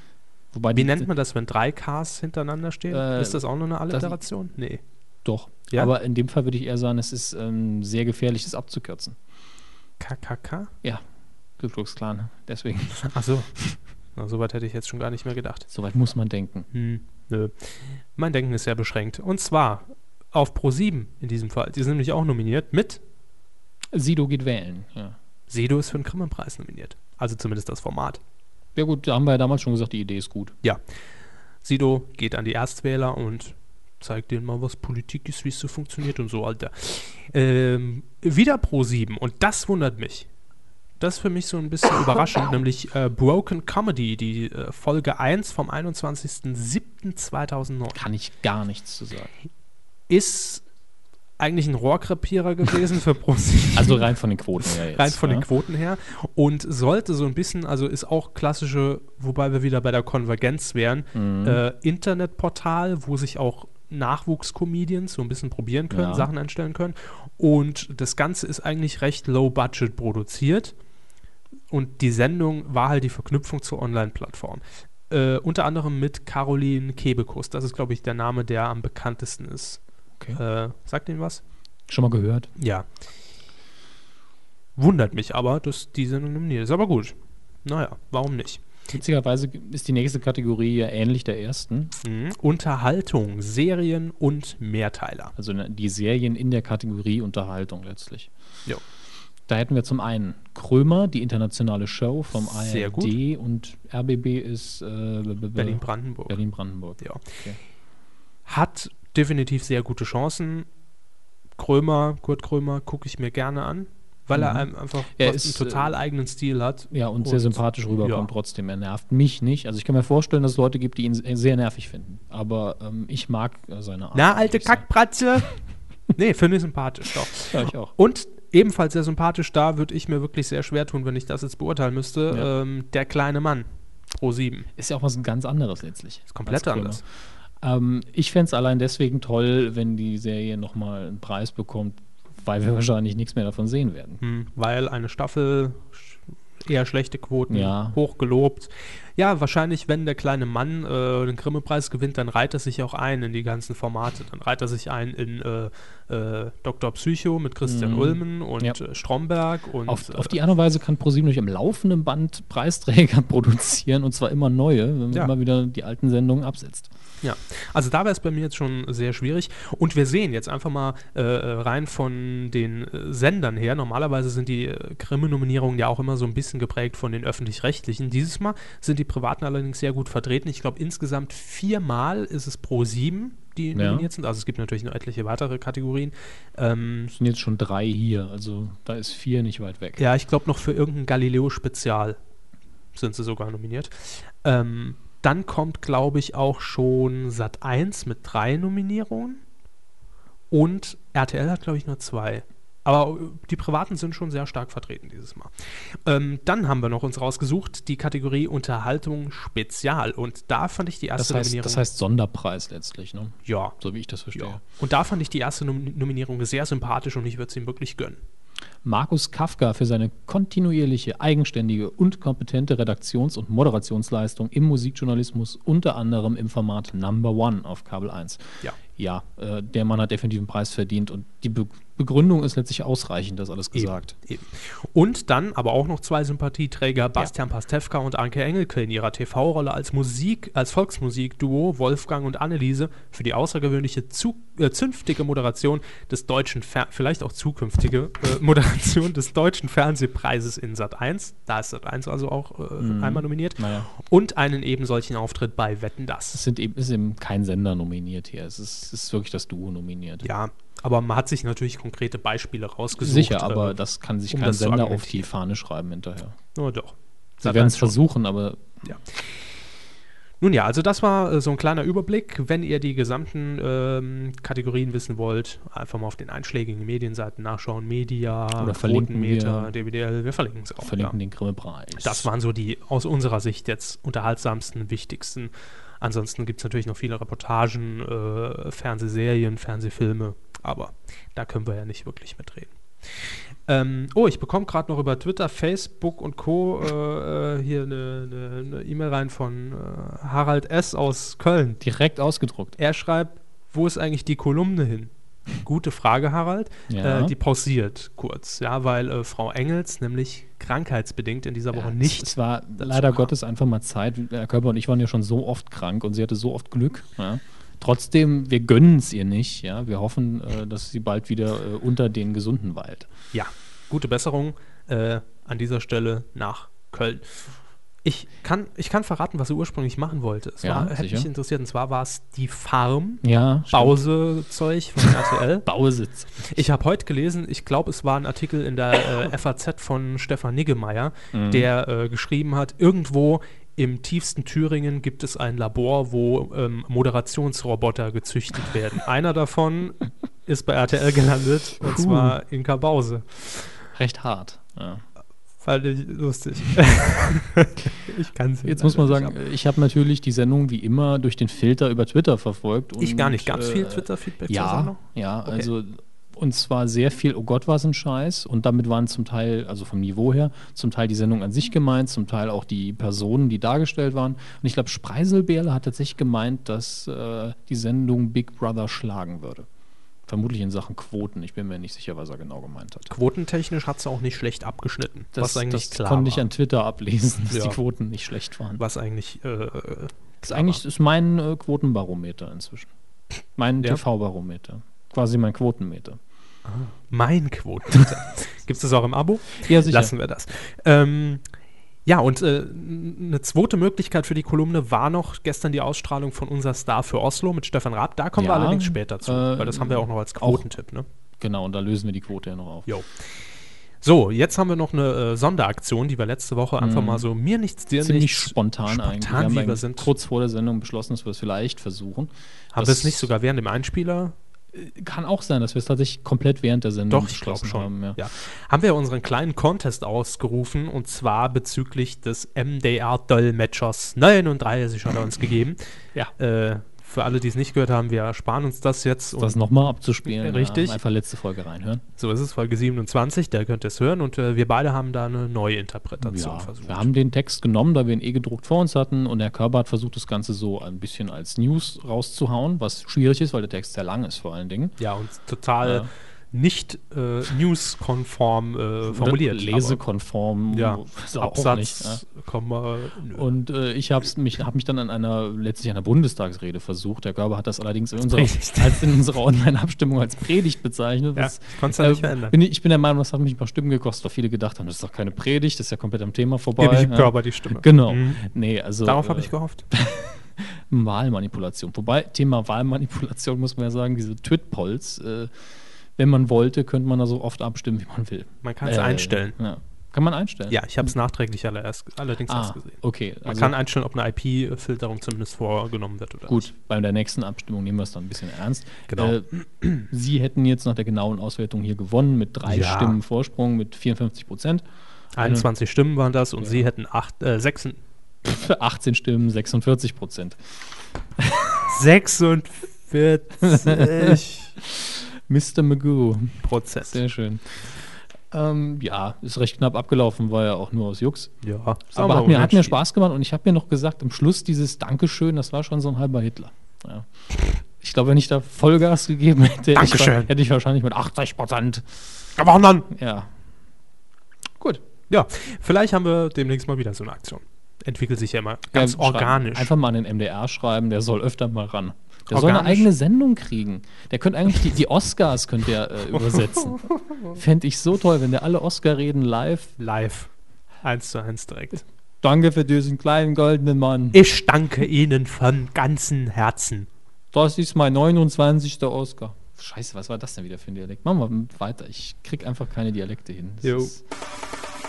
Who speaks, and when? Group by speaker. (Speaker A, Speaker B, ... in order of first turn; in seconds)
Speaker A: 0.5-1.1, 2.9-4.2, 5.2-9.2, 11.6-13.1, 15.7-16.7, 23.9-25.1, 28.8-30.5, 47.9-49.3, 53.7-55.5, 61.1-61.6, 65.9-66.3, 81.9-82.5, 88.9-91.9, 95.4-98.3, 99.5-107.6, 114.3-115.9, 116.9-124.8, 127.5-127.9, 134.8-137.0, 137.6-144.2, 147.5-148.0, 157.6-158.8, 159.9-166.9, 183.7-184.1, 187.1-190.0, 211.2-214.6, 218.8-234.1, 252.8-253.9, 256.3-260.2, 263.0-266.4, 267.4-268.8, 278.6-279.7, 280.8-282.3, 301.8-302.8, 306.9-307.3, 311.7-323.1, 330.6-331.3, 333.2-334.0, 335.6-336.6, 341.3-341.7, 351.8-352.4, 353.9-355.0, 358.6-379.7, 380.3-383.1, 385.3-388.8, 390.4-392.9, 393.5-396.2, 399.6-400.1, 408.4-410.6, 411.4-412.9, 416.8-417.2, 418.0-423.3, 424.7-428.2, 439.4-442.0, 446.2-454.9, 455.8-456.1, 459.1-462.2, 463.3-485.5, 486.2-491.1, 492.5-493.7, 496.5-504.8, 505.4-505.7, 506.6-506.9, 508.4-510.6, 511.4-511.8, 513.6-521.5, 522.1-527.3, 527.9-532.2, 533.1-533.5, 538.9-549.9, 552.4-554.4, 557.5-564.2
Speaker B: 0.7-4.8, 10.0-10.7, 13.0-13.5, 14.2-15.7, 16.7-23.0, 25.5-28.2, 31.6-40.3, 41.0-48.0, 50.1-50.6, 51.4-54.1, 54.6-70.7, 71.7-79.8, 80.3-81.4, 82.6-82.8, 84.8-88.6, 92.0-95.3, 102.5-103.1, 105.5-106.4, 107.0-107.3, 108.5-110.7, 111.6-118.3, 124.1-125.5, 126.1-134.7, 136.3-137.0, 144.2-160.3, 167.2-187.1, 190.0-192.2, 192.9-199.4, 200.5-211.8, 213.4-213.8, 214.3-218.2, 233.7-256.4, 260.2-263.8, 264.3-265.3, 266.5-268.0, 268.8-269.2, 270.4-281.1, 282.0-301.8, 302.8-313.3, 323.3-327.5, 328.0-335.6, 336.4-353.7, 355.6-359.4, 363.0-365.7, 383.1-386.4, 387.5-387.8, 388.8-390.8, 396.6-401.4, 402.1-411.1, 414.0-420.1, 422.7-424.3, 427.1-435.8, 436.4-439.6, 440.2-441.0, 442.2-447.1, 455.0-460.0, 460.7-463.4, 468.2-469.1, 471.4-472.6, 476.8-478.4, 479.0-479.8, 488.6-489.6, 490.7-496.7, 499.1-499.9, 502.6-503.2, 505.4-508.0, 511.9-514.7, 516.6-517.2, 521.6-523.0, 530.0-530.5, 532.6-533.1, 535.3-539.9, 542.5-543.1, 550.0-550.5, 551.0-552.0, 554.3-557.1, 563.8-564.1